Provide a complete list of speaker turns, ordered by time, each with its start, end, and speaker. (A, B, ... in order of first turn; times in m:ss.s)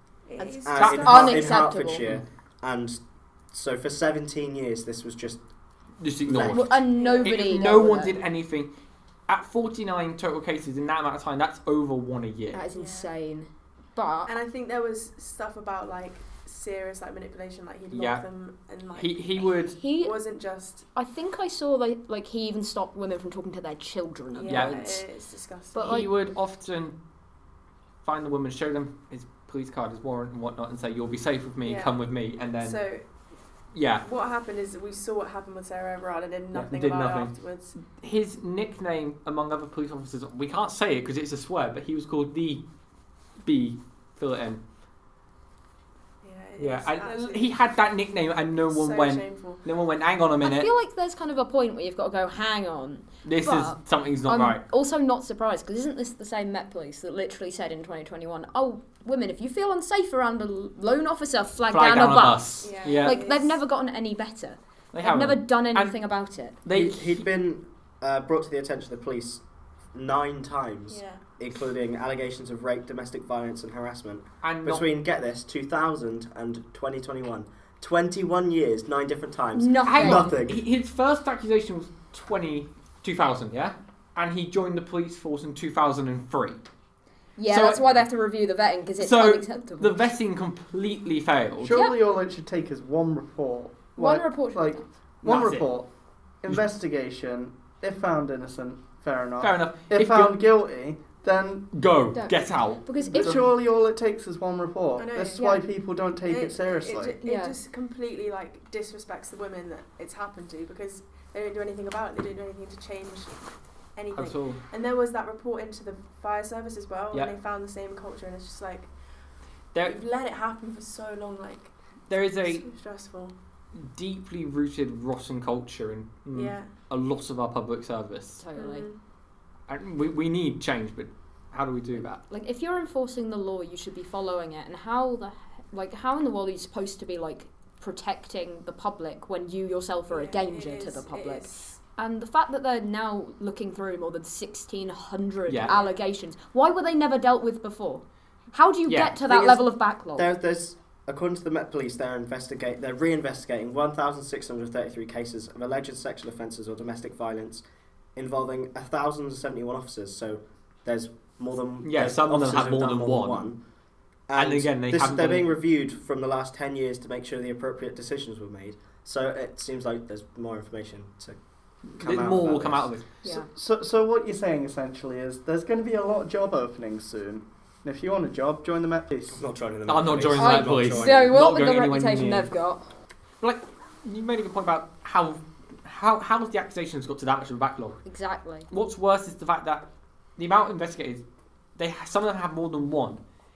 0:00.3-0:01.5 A
0:00.4-0:02.0 B
0:00.6-0:03.0 C
0:00.8-0:01.3 D
0:03.5-0:05.4 C
0:06.0-0:08.7 D
0:06.2-0:06.7 C
0:06.5-0:08.2 B
0:06.9-0:07.9 A
0:09.3-0:12.6 D
0:12.5-0:14.3 B
0:12.7-0:13.1 A
0:14.3-0:20.9 A
0:17.9-0:18.2 D
0:18.9-0:19.8 D
0:19.7-0:20.1 B
0:20.9-0:25.0 B
0:24.3-0:26.1 A
0:24.5-0:24.8 D
0:25.7-0:26.1 B
0:25.8-0:27.0 D
0:28.0-0:32.8 D
0:31.6-0:33.0 A
0:33.7-0:34.0 D
0:34.0-0:37.7 A
0:36.5-0:42.6 D
0:43.4-0:44.6 D
0:46.2-0:47.6 A
0:46.6-0:50.7 D
0:48.7-0:49.6 A
0:50.4-1:06.6 B
0:53.2-0:54.6 D
1:01.7-1:03.2 D
1:02.6-1:03.6 A
1:04.9-1:06.0 D
1:06.6-1:07.2 D
1:06.7-1:09.4 C
1:09.9-1:20.6 C
1:10.9-1:11.2 A
1:14.4-1:14.9 D
1:19.6-1:20.3 B
1:19.8-1:26.6 D
1:27.4-1:30.0 B
1:27.5-1:28.0 D
1:29.0-1:31.8 D
1:31.6-1:35.9 E
1:31.7-1:32.0 B
1:34.0-1:34.8 B
1:35.2-1:35.7 D
1:36.4-1:41.8 E
1:39.4-1:40.4 D
1:41.7-1:43.5 D
1:42.1-1:43.5 B
1:43.0-1:47.2 E
1:45.0-1:45.6 A
1:46.2-1:53.3 A
1:47.2-1:47.6 B
1:54.0-1:58.9 A
1:54.2-1:54.6 D
1:59.8-2:01.7 A
2:02.1-2:02.7 D
2:02.4-2:03.3 A
2:03.8-2:08.4 D
2:06.3-2:06.7 A
2:08.4-2:08.9 B
2:08.6-2:09.0 A
2:09.7-2:12.2 D
2:12.3-2:30.3 B
2:20.1-2:21.8 A
2:25.5-2:25.7 D
2:25.6-2:26.0 A
2:28.9-2:29.2 D
2:29.3-2:29.6 C
2:30.2-2:37.6 C
2:38.2-2:43.6 C
2:41.8-2:43.5 D
2:44.3-2:51.4 C
2:44.4-2:45.5 D
2:52.0-2:52.9 C
2:52.0-2:53.0 D
2:53.2-2:59.4 E
2:59.3-3:01.4 C
2:59.9-3:02.5 D
3:00.4-3:02.8 B
3:03.4-3:08.0 D
3:08.0-3:08.7 B
3:08.7-3:09.9 D
3:10.4-3:11.2 D
3:11.8-3:13.2 D